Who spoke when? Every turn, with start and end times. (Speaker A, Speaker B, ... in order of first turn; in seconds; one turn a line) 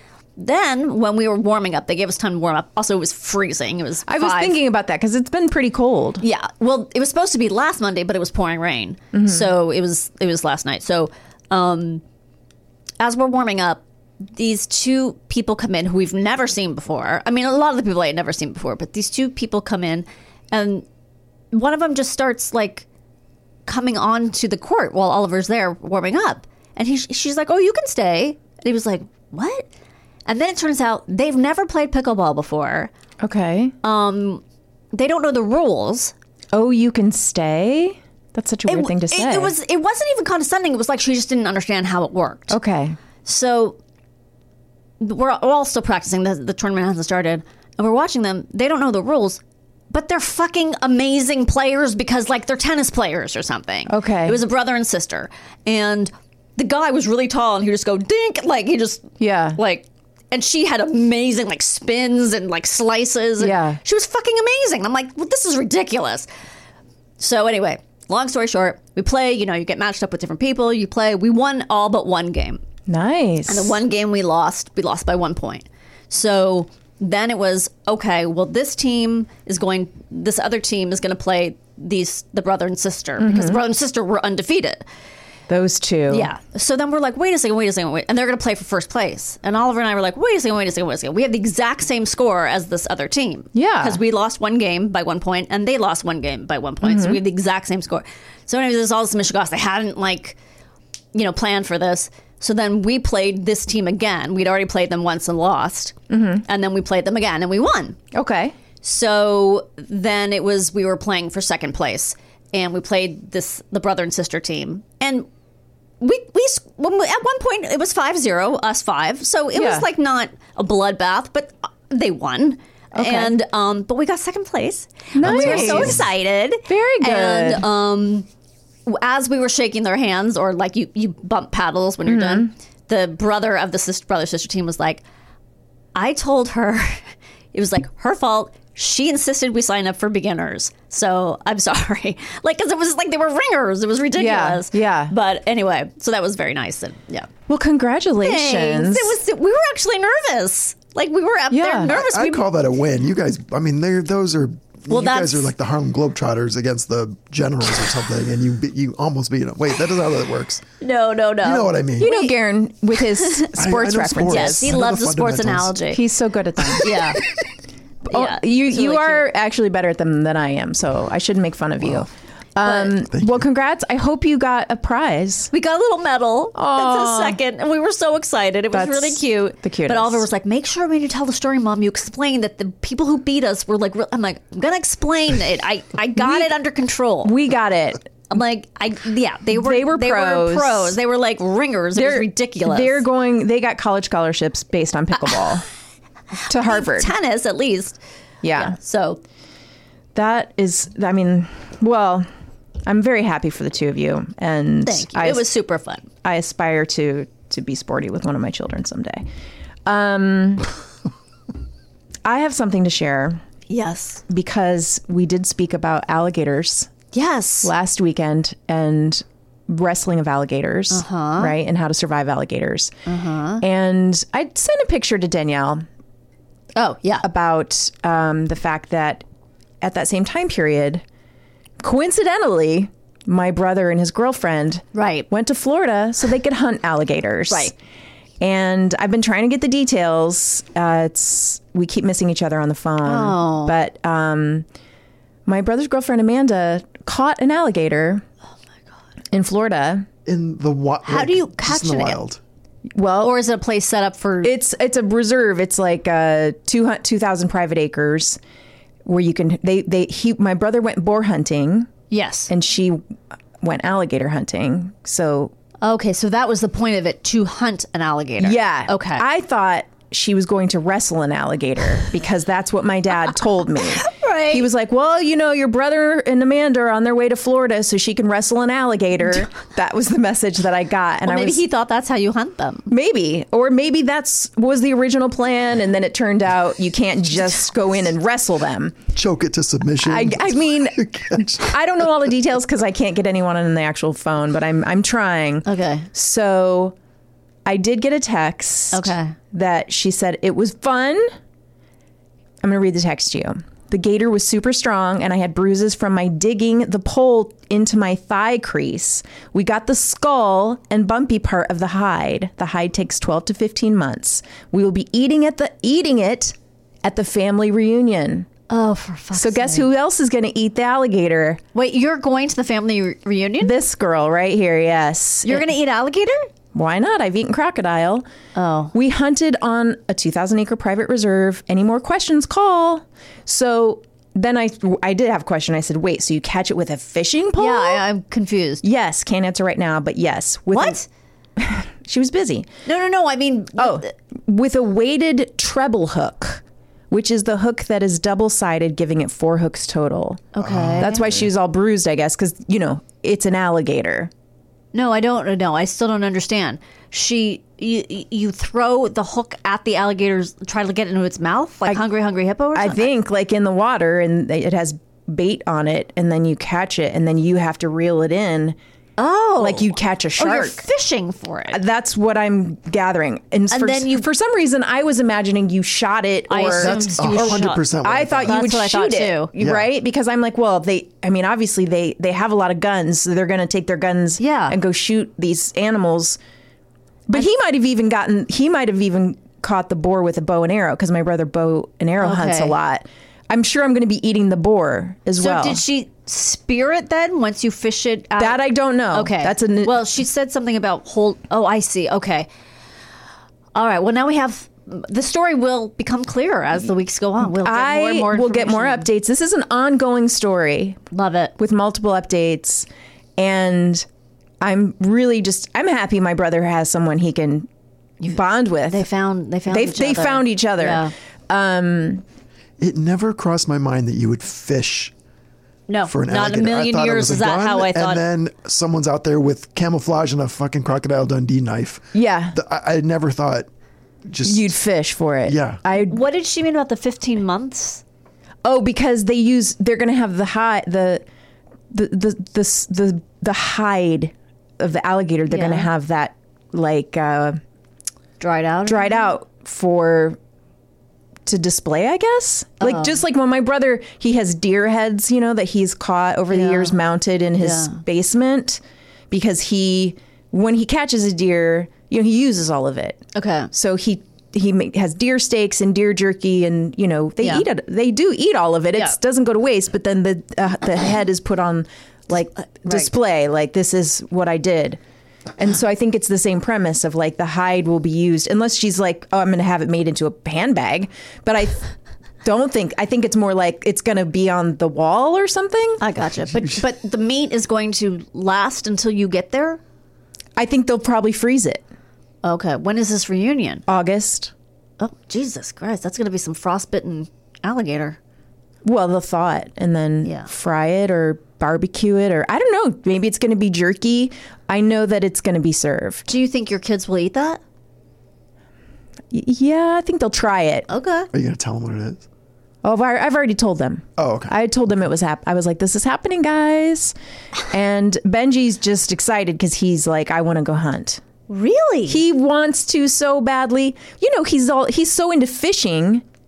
Speaker A: 0.4-4.6
Speaker B: 4.0-6.2
Speaker A: 6.2-12.0
Speaker B: 9.1-9.5
Speaker A: 13.0-20.9
Speaker A: 21.5-22.9
Speaker A: 23.6-29.7
Speaker A: 30.2-32.9
Speaker B: 33.2-33.7
Speaker A: 33.8-34.4
Speaker A: 34.9-36.1
Speaker B: 36.5-39.5
Speaker A: 38.6-42.5
Speaker B: 42.5-43.0
Speaker A: 43.2-43.8
Speaker A: 45.0-66.3
Speaker B: 53.9-54.4
Speaker B: 59.2-59.6
Speaker B: 63.4-63.8
Speaker A: 67.2-72.6
Speaker B: 72.9-73.8
Speaker A: 73.5-84.8
Speaker B: 83.2-83.6
Speaker B: 85.5-86.3
Speaker A: 86.1-100.4
Speaker B: 93.5-94.0
Speaker B: 96.8-97.2
Speaker A: 101.1-108.0
Speaker B: 106.1-106.4
Speaker B: 108.1-108.5
Speaker A: 108.8-115.3
Speaker A: 116.0-128.3
Speaker B: 119.5-119.9
Speaker B: 122.9-123.3
Speaker B: 125.1-126.0
Speaker C: 125.2-126.0
Speaker B: 126.7-127.7
Speaker A: 128.8-135.0
Speaker B: 132.0-132.5
Speaker A: 135.9-137.0
Speaker A: 137.5-147.3
Speaker B: 144.2-145.1
Speaker B: 147.5-149.2
Speaker A: 148.2-152.4
Speaker B: 151.5-151.9
Speaker C: 151.9-160.6
Speaker A: 154.9-155.5
Speaker A: 160.8-162.3
Speaker C: 161.4-162.1
Speaker B: 162.0-164.8
Speaker C: 163.5-165.8
Speaker A: 164.3-166.0
Speaker B: 165.9-167.0
Speaker A: 166.8-167.2
Speaker B: 168.1-175.5
Speaker A: 168.1-169.3
Speaker A: 172.6-172.9
Speaker C: 173.1-173.4
Speaker A: 175.5-187.3
Speaker B: 176.5-177.4
Speaker B: 178.7-180.2
Speaker B: 186.2-186.5
Speaker B: 187.2-188.1
Speaker A: 188.3-193.0
Speaker B: 189.5-190.9
Speaker B: 191.9-195.6
Speaker B: 196.5-197.1
Speaker A: 196.5-198.0
Speaker B: 198.4-198.8
Speaker A: 198.5-199.2
Speaker B: 200.1-202.3
Speaker B: 202.8-205.5
Speaker A: 204.8-206.1
Speaker B: 206.2-209.3
Speaker B: 209.8-210.7
Speaker B: 212.2-213.4
Speaker A: 213.7-214.2
Speaker B: 214.3-216.9
Speaker A: 217.1-217.7
Speaker B: 217.6-222.9
Speaker A: 220.9-221.5
Speaker A: 223.1-223.6
Speaker B: 223.6-225.8
Speaker A: 226.8-227.2
Speaker B: 227.2-229.2
Speaker B: 229.8-231.0
Speaker B: 231.8-237.7
Speaker A: 234.9-235.3
Speaker B: 238.4-244.7
Speaker A: 243.0-243.8
Speaker B: 245.4-248.2
Speaker B: 249.3-250.1
Speaker C: 250.2-252.4
Speaker A: 251.0-252.2
Speaker B: 252.9-253.4
Speaker A: 253.2-254.5
Speaker B: 254.4-258.4
Speaker B: 259.0-261.9
Speaker A: 262.1-262.5
Speaker B: 262.5-263.0
Speaker B: 263.6-265.5
Speaker A: 265.8-269.2
Speaker B: 268.4-281.6
Speaker A: 273.9-274.7
Speaker A: 281.2-282.9
Speaker B: 282.9-289.0
Speaker C: 289.1-291.7
Speaker B: 290.0-296.9
Speaker A: 295.6-296.1
Speaker B: 297.6-301.3
Speaker A: 298.9-299.4
Speaker B: 302.6-318.5
Speaker A: 318.7-319.9
Speaker B: 319.3-321.6
Speaker A: 321.7-323.8
Speaker B: 323.6-325.7
Speaker A: 325.4-326.5
Speaker B: 326.7-328.2
Speaker A: 328.5-328.9
Speaker B: 328.9-338.0
Speaker A: 337.6-338.8
Speaker B: 338.8-341.0
Speaker A: 340.7-341.0
Speaker B: 341.6-342.7
Speaker A: 342.9-344.1
Speaker B: 343.8-354.3
Speaker A: 350.5-351.3
Speaker C: 350.6-351.5
Speaker A: 354.9-363.1
Speaker B: 362.7-368.8
Speaker A: 369.2-371.8
Speaker B: 369.6-370.8
Speaker B: 371.7-386.4
Speaker A: 373.7-374.3
Speaker A: 376.5-377.8
Speaker C: 376.7-378.6
Speaker A: 378.4-379.5
Speaker C: 379.6-379.9
Speaker A: 384.4-384.8
Speaker B: 387.3-395.8
Speaker A: 392.2-392.8
Speaker A: 395.4-402.5
Speaker B: 398.4-400.1
Speaker A: 403.7-409.1
Speaker B: 407.4-411.0
Speaker A: 411.1-411.5
Speaker B: 411.6-414.1
Speaker B: 414.6-417.7
Speaker A: 418.2-421.1
Speaker B: 418.3-419.1
Speaker B: 419.7-422.2
Speaker C: 422.8-425.1
Speaker A: 425.9-428.2
Speaker C: 426.1-433.7
Speaker B: 432.1-432.6
Speaker C: 434.3-434.8
Speaker B: 434.4-436.2
Speaker C: 435.4-435.8
Speaker A: 435.9-438.0
Speaker B: 438.6-441.2
Speaker B: 441.9-447.6
Speaker A: 445.5-445.9
Speaker A: 448.4-449.3
Speaker B: 448.8-450.4
Speaker B: 451.4-475.0
Speaker A: 452.8-453.2
Speaker A: 456.5-456.9
Speaker A: 457.6-458.0
Speaker A: 463.3-463.7
Speaker A: 467.4-467.6
Speaker A: 472.8-473.1
Speaker B: 475.6-481.9
Speaker B: 482.4-486.0
Speaker A: 486.0-489.8
Speaker B: 490.6-491.8
Speaker A: 492.4-493.8
Speaker B: 493.9-494.5
Speaker A: 495.0-498.2
Speaker B: 498.8-506.3
Speaker A: 500.2-500.5
Speaker A: 506.3-507.6
Speaker B: 509.3-510.9
Speaker A: 510.9-511.3
Speaker C: 511.3-512.2
Speaker B: 512.8-517.1
Speaker C: 514.2-514.5
Speaker B: 517.7-521.2
Speaker A: 521.5-522.2
Speaker B: 522.1-526.2